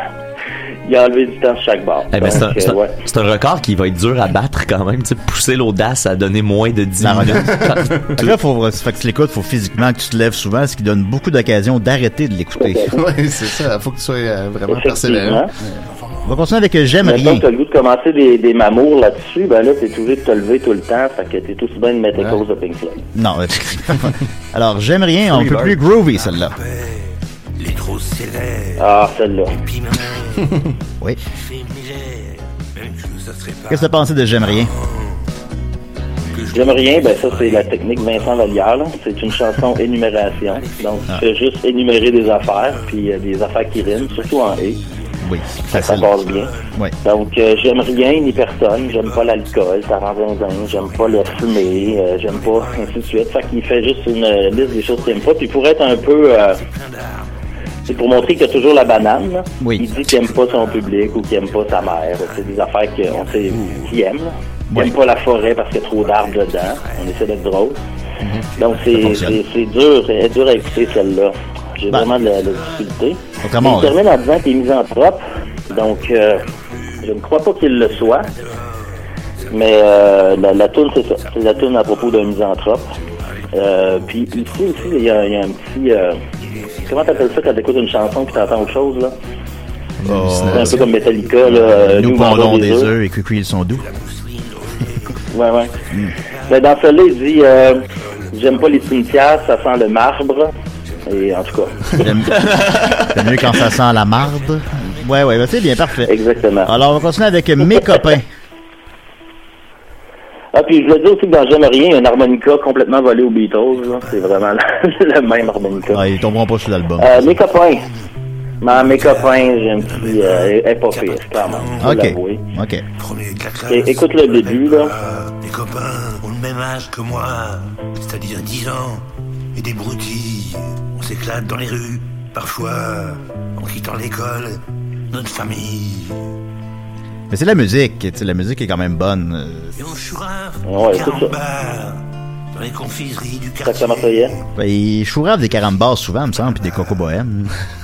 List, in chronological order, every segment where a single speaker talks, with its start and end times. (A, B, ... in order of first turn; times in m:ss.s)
0:00.9-0:03.0 A
0:02.1-0:08.4 B
0:07.0-0:13.0 C
0:07.4-0:08.1 D
0:12.6-0:12.9 A
0:12.9-0:15.5 D
0:14.7-0:15.5 A
0:15.9-0:16.4 E
0:16.3-0:17.5 C
0:17.0-0:23.0 A
0:22.1-0:22.4 D
0:23.1-0:26.6 C
0:25.4-0:25.7 B
0:26.1-0:28.9 E
0:28.8-0:29.6 A
0:29.5-0:30.6 E
0:31.3-0:35.3 E
0:33.7-0:34.7 C
0:36.3-0:38.8 E
0:36.5-0:44.8 A
0:40.3-0:41.2 E
0:41.9-0:53.4 E
0:45.2-0:46.1 C
0:45.7-0:46.5 A
0:47.0-0:56.6 A
0:54.4-0:57.3 E
0:57.9-0:59.1 E
0:57.9-1:07.8 A
0:59.6-0:59.8 C
0:59.8-1:04.2 E
1:04.8-1:07.6 E
1:08.6-1:11.2 E
1:08.6-1:16.4 A
1:08.9-1:09.4 C
1:11.9-1:13.0 E
1:13.4-1:14.0 C
1:15.7-1:25.5 E
1:17.0-1:18.3 A
1:19.5-1:22.9 A
1:23.5-1:26.2 A
1:26.3-1:29.0 E
1:26.9-1:29.1 A
1:30.0-1:30.8 D
1:30.0-1:30.8 C
1:30.5-1:32.9 A
1:30.8-1:31.5 E
1:31.5-1:33.8 C
1:32.1-1:32.4 E
1:33.7-1:39.6 E
1:35.3-1:35.7 A
1:36.5-1:37.8 A
1:38.3-1:40.5 A
1:40.9-1:47.1 E
1:41.1-1:41.8 A
1:42.0-1:42.6 C
1:43.1-1:46.1 C
1:46.0-1:46.7 A
1:46.6-1:48.2 C
1:50.5-1:56.0 A
1:53.8-1:54.5 E
1:55.4-1:55.9 E
1:55.9-1:57.2 C
1:57.0-1:57.9 A
1:57.2-1:58.1 E
1:58.6-2:02.4 A
1:58.6-2:02.1 E
2:01.8-2:02.8 C
2:03.0-2:16.2 E
2:03.7-2:04.9 A
2:17.3-2:19.8 C
2:19.8-2:24.4 E
2:20.6-2:21.4 A
2:23.6-2:24.3 A
2:24.6-2:27.5 C